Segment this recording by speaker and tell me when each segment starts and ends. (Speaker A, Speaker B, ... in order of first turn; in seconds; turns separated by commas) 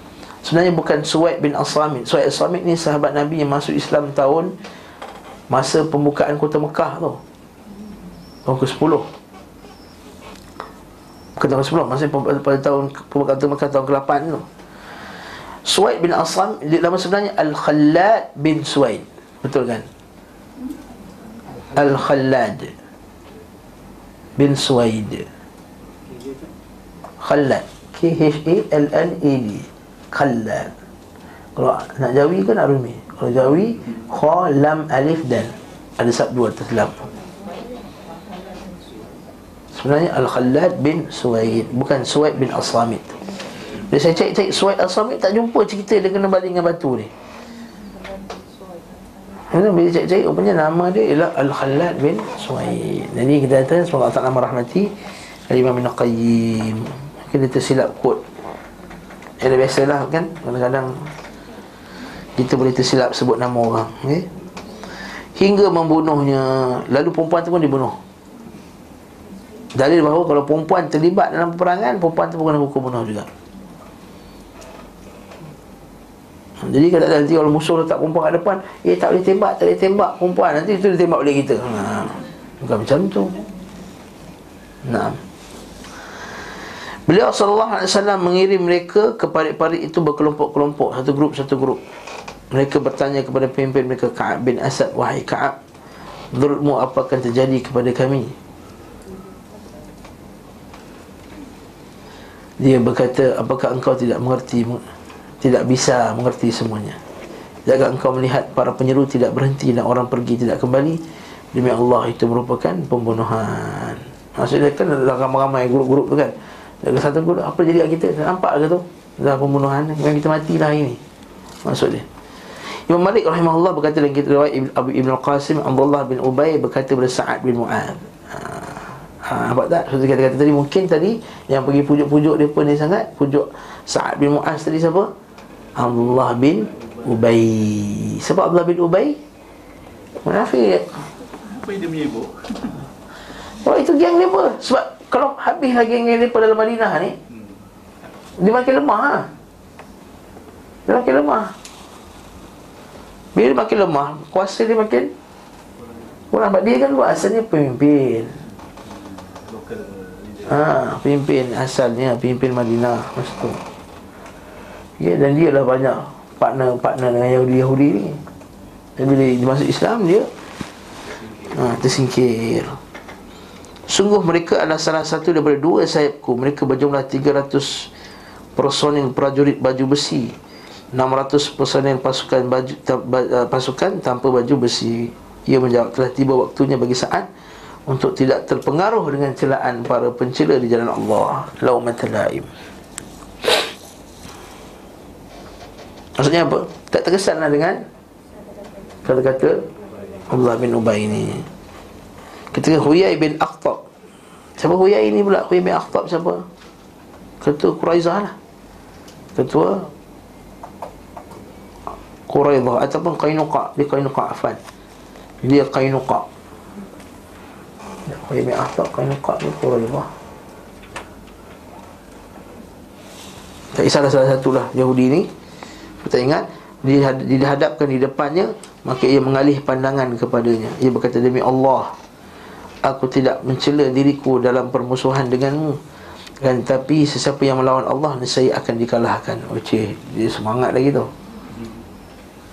Speaker A: 0.4-4.5, Speaker A: 5.5-7.2, Speaker A: 8.5-9.1, Speaker A: 11.4-14.5, Speaker A: 15.7-19.9, Speaker B: 21.5-21.8, Speaker A: 21.8-22.7, Speaker A: 24.4-25.3, Speaker B: 26.1-26.5, Speaker A: 27.2-30.7, Speaker A: 31.6-37.0, Speaker A: 39.7-43.2, Speaker A: 43.8-47.1, Speaker A: 49.5-54.9, Speaker A: 55.5-58.2, Speaker A: 59.4-61.1, Speaker A: 62.4-64.3, Speaker A: 65.1-68.0, Speaker A: 69.8-73.3, Speaker A: 76.6-83.3, Speaker A: 84.8-85.2, Speaker A: 87.1-91.8, Speaker A: 92.5-95.6, Speaker A: 96.3-98.3, Speaker A: 102.6-104.8, Speaker A: 105.4-107.0, Speaker A: 107.7-111.0, Speaker A: 111.5-121.0, Speaker A: 121.7-122.1, Speaker A: 122.7-135.1, Speaker A: 135.8-139.2, Speaker B: 136.6-137.7, Speaker A: 140.2-140.9, Speaker B: 141.4-142.9, Speaker A: 143.6-147.2, Speaker B: 147.3-147.6, Speaker A: 148.4-149.3, Speaker A: 150.9-151.5, Speaker A: 153.3-155.1, Speaker A: 156.3-158.3, Speaker B: 158.8-160.7, Speaker A: 160.5-163.6, Speaker A: 165.0-168.2, Speaker A: 169.0-170.3, Speaker B: 171.2-171.5, Speaker A: 171.5-172.8, Speaker A: 173.9-177.9, Speaker A: 178.6-180.3, Speaker A: 180.9-187.3, Speaker A: 187.9-192.5, Speaker A: 196.2-197.8, Speaker A: 199.1-199.7, Speaker A: 200.3-201.5, Speaker A: 202.5-203.8, Speaker A: 204.6-206.4, Speaker A: 207.4-208.3, Speaker A: 209.4-209.9, Speaker A: 212.3-214.6, Speaker A: 215.4-216.3, Speaker A: 218.1-220.1, Speaker A: 223.7-225.3, Speaker A: 226.0-231.9, Speaker A: 232.8-235.8, Speaker A: 236.4-241.1, Speaker B: 241.5-241.8